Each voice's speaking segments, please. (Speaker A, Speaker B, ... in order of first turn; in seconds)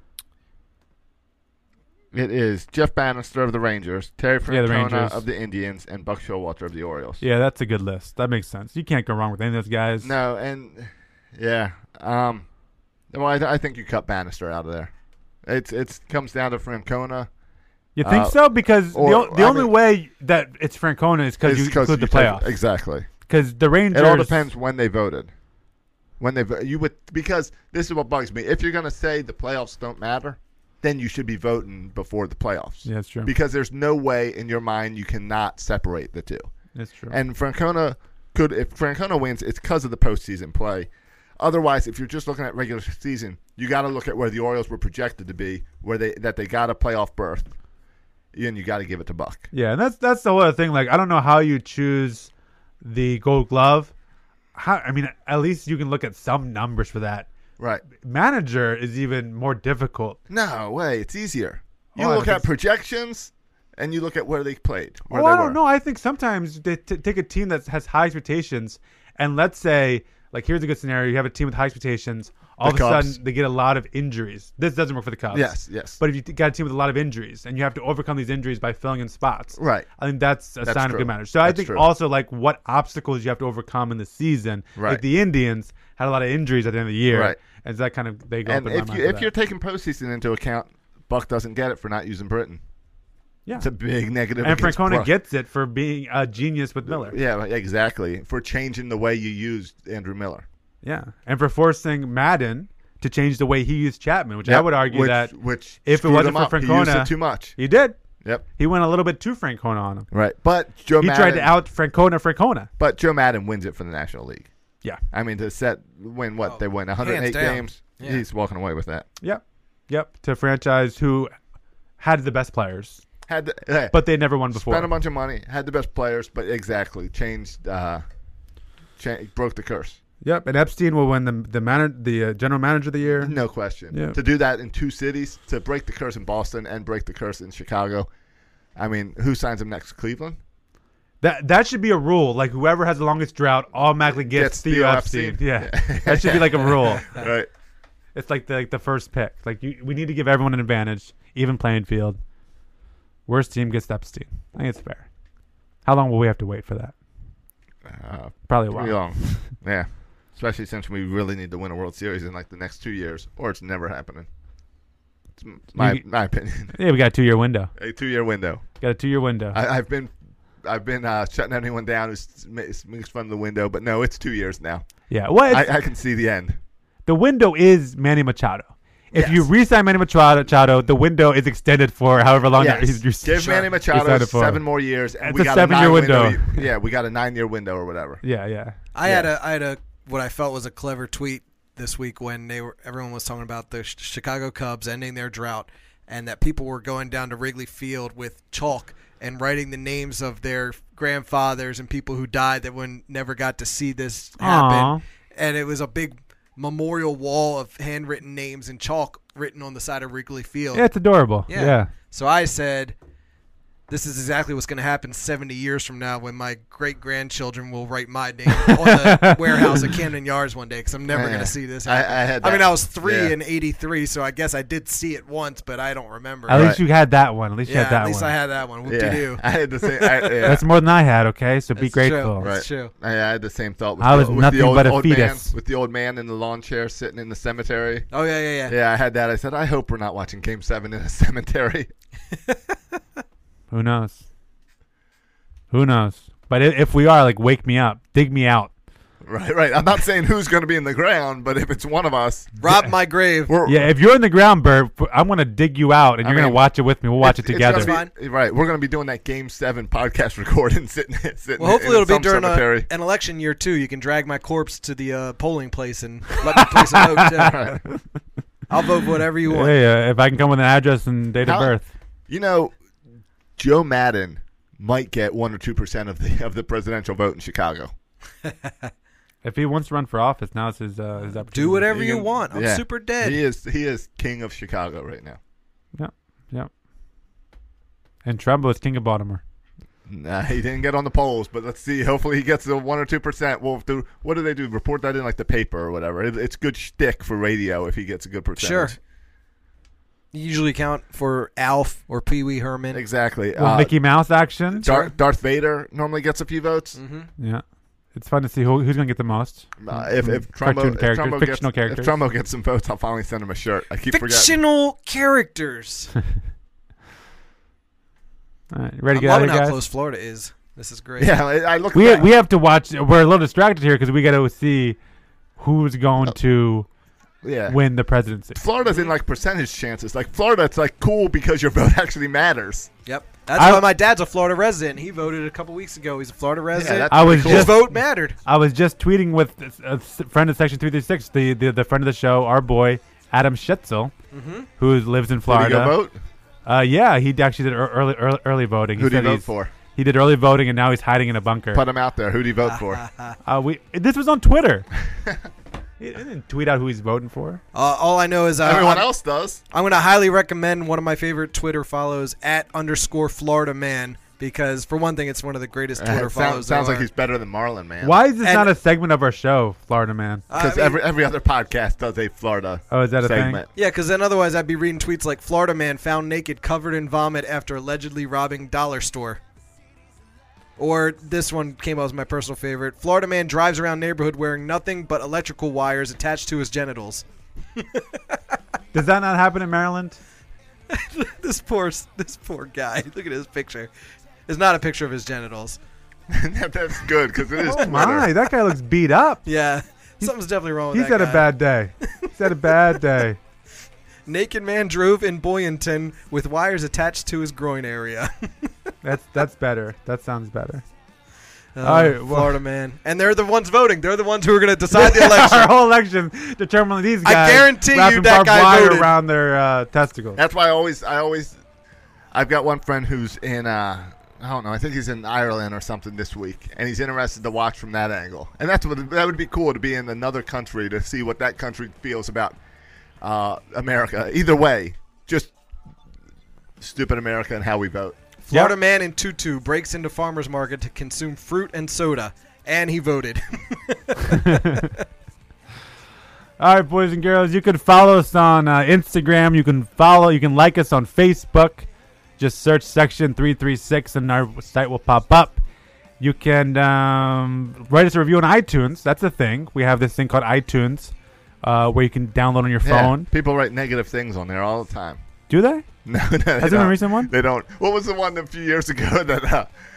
Speaker A: 2.1-7.2, 10.0-12.4, 13.1-14.9, 15.4-17.3, 18.0-19.7, 21.4-23.1, 23.9-25.3, 26.2-36.5, 37.1-47.5, 48.3-49.5, 60.3-65.6, 72.6-73.2, 75.3-76.0, 79.6-79.9, 80.6-81.8, 84.8-85.0, 87.1-87.4, 88.5-92.6, 93.6-95.1, 96.9-100.5, 104.4-107.6, 110.1-111.5, 112.8-114.5, 115.1-119.0, 123.3-124.0, 124.5-128.0, 129.0-130.0, 133.1-138.1, 138.8-140.4, 144.1-147.5, 157.8-164.3, 165.4-166.7, 167.8-168.6, 169.5-170.1, 170.6-174.8, 175.5-176.6, 179.1-179.5, 182.5-188.2, 189.0-189.3, 221.1-223.3, 226.5-226.8, 228.8-230.6, 232.4-238.1, 238.7-241.9, 249.2-252.5, 253.5-253.9, 256.2-256.6, 257.2-262.9, 267.3-267.8, 271.4-271.8, 272.3-272.7, 273.6-277.9, 281.9-285.4, 290.1-299.0, 302.9-303.9, 304.8-307.0, 309.8-314.6, 321.2-322.3, 327.4-327.8, 328.5-332.9, 336.7-337.8, 345.5-346.2, 349.0-349.7, 351.7-353.0, 358.6-359.6, 366.0-368.2, 370.5-373.7, 396.3-398.3, 420.4-421.6, 422.3-432.6, 433.2-435.5, 436.8-438.1, 462.8-465.2, 466.0-469.7
Speaker B: 4.5-5.2, 7.2-10.1, 17.9-22.6, 23.1-24.5, 32.8-33.3, 36.7-37.1, 49.5-52.3, 52.8-53.9, 54.5-57.3, 57.9-60.2, 62.0-62.5, 65.1-89.3, 94.4-97.2, 100.8-108.0, 108.6-110.1, 111.0-112.7, 119.2-121.3, 122.0-123.0, 123.9-124.9, 130.2-133.3, 133.9-134.2, 141.2-147.1, 148.1-152.2, 153.3-155.1, 155.8-156.9, 158.5-159.2, 165.8-166.0, 166.7-167.7, 168.8-169.6, 175.1-175.7, 177.1-184.6, 185.2-186.7, 188.2-188.8, 204.4-205.0, 210.7-211.9, 218.6-219.9, 226.5-228.3, 230.4-232.5, 234.0-235.5, 243.7-244.2, 245.7-248.7, 253.6-257.9, 266.4-267.3, 269.4-271.9, 279.4-282.1, 285.9-286.7, 288.2-289.4, 303.6-304.9, 308.1-312.1, 318.7-319.8, 321.9-325.0, 325.6-326.9, 327.7-328.6, 333.5-333.9, 337.1-344.1, 344.8-345.9, 346.6-351.8, 353.4-354.9, 356.0-357.6, 368.0-370.4, 372.9-373.6, 388.9-390.2, 397.6-399.5, 400.9-403.4, 409.0-410.8, 411.8-412.6, 414.9-420.4, 446.6-451.9, 452.4-455.6, 456.2-463.3, 465.5-465.9, 466.6-467.3
Speaker C: 116.4-118.2, 188.9-210.8, 211.5-212.9, 213.9-226.8, 227.6-230.6, 231.8-232.9, 238.1-238.7, 252.6-253.5, 257.7-258.1, 261.6-267.6, 268.7-269.7, 281.5-283.4, 298.6-299.0, 300.3-303.0, 304.8-305.1, 306.9-307.3, 314.1-316.1, 319.1-321.3, 328.8-329.1, 333.1-338.4, 344.3-344.7, 352.6-353.4, 357.7-359.1, 359.7-367.1, 368.4-368.7, 370.5-371.0, 373.7-379.4, 380.8-387.2, 387.8-388.4, 390.9-393.9, 394.5-395.8, 397.6-398.2, 399.4-401.5, 404.2-408.7, 411.7-415.7, 417.2-419.1, 438.4-445.0